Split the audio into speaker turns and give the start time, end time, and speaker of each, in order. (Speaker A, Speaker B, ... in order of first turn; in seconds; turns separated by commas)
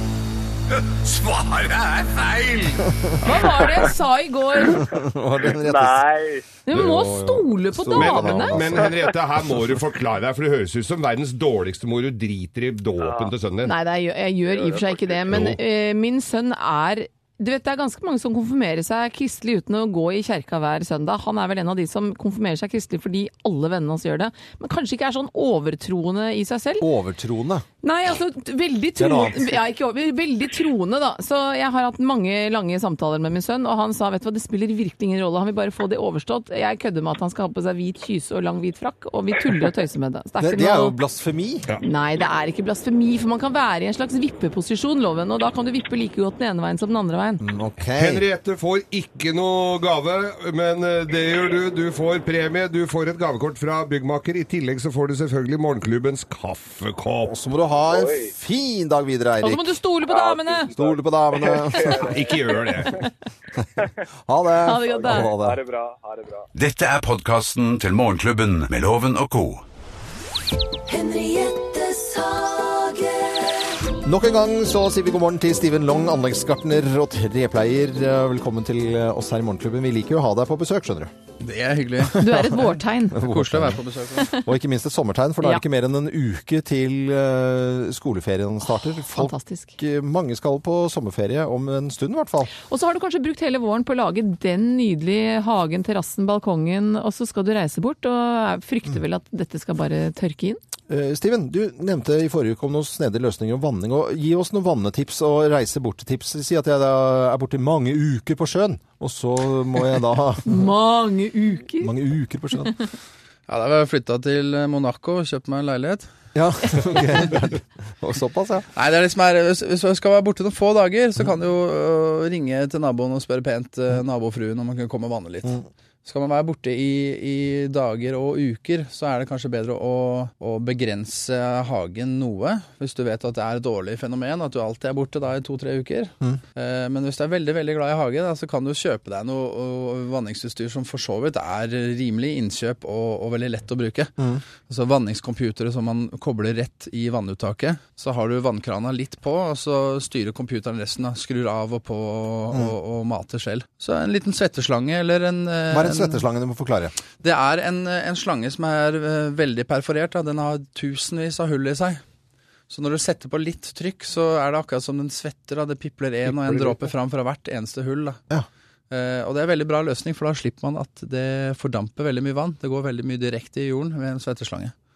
Speaker A: 0.9-2.8, Speaker B: 3.2-4.9, Speaker C: 4.8-6.0, Speaker D: 5.4-6.5, Speaker B: 6.7-8.6, Speaker E: 6.7-13.7, Speaker C: 7.7-8.9, Speaker D: 13.0-13.3, Speaker B: 13.7-26.9, Speaker D: 14.5-15.2, Speaker E: 15.3-15.6, Speaker C: 26.8-27.6, Speaker B: 27.8-41.0, Speaker C: 29.0-29.6, Speaker C: 40.4-41.7, Speaker B: 41.8-47.5, Speaker C: 47.4-48.2, Speaker E: 47.9-57.3, Speaker C: 57.3-59.8, Speaker D: 57.9-58.3, Speaker B: 59.4-60.7, Speaker D: 60.1-63.0, Speaker C: 60.8-62.1, Speaker E: 62.0-63.0, Speaker C: 64.3-65.6, Speaker B: 64.6-65.3, Speaker D: 64.8-66.5, Speaker A: 66.5-69.6, Speaker F: 70.9-73.7, Speaker C: 74.0-81.1, Speaker G: 81.4-82.2, Speaker B: 82.2-83.2, Speaker C: 82.2-92.5, Speaker G: 83.2-84.3, Speaker B: 88.7-89.8, Speaker B: 92.5-100.6, Speaker C: 100.9-110.6, Speaker B: 110.5-111.9, Speaker C: 111.8-112.8, Speaker G: 113.5-116.1, Speaker C: 116.3-118.7, Speaker G: 118.8-144.1, Speaker G: 144.7-156.2, Speaker C: 155.7-156.9, Speaker G: 157.2-162.0, Speaker G: 162.7-168.2, Speaker G: 168.9-174.7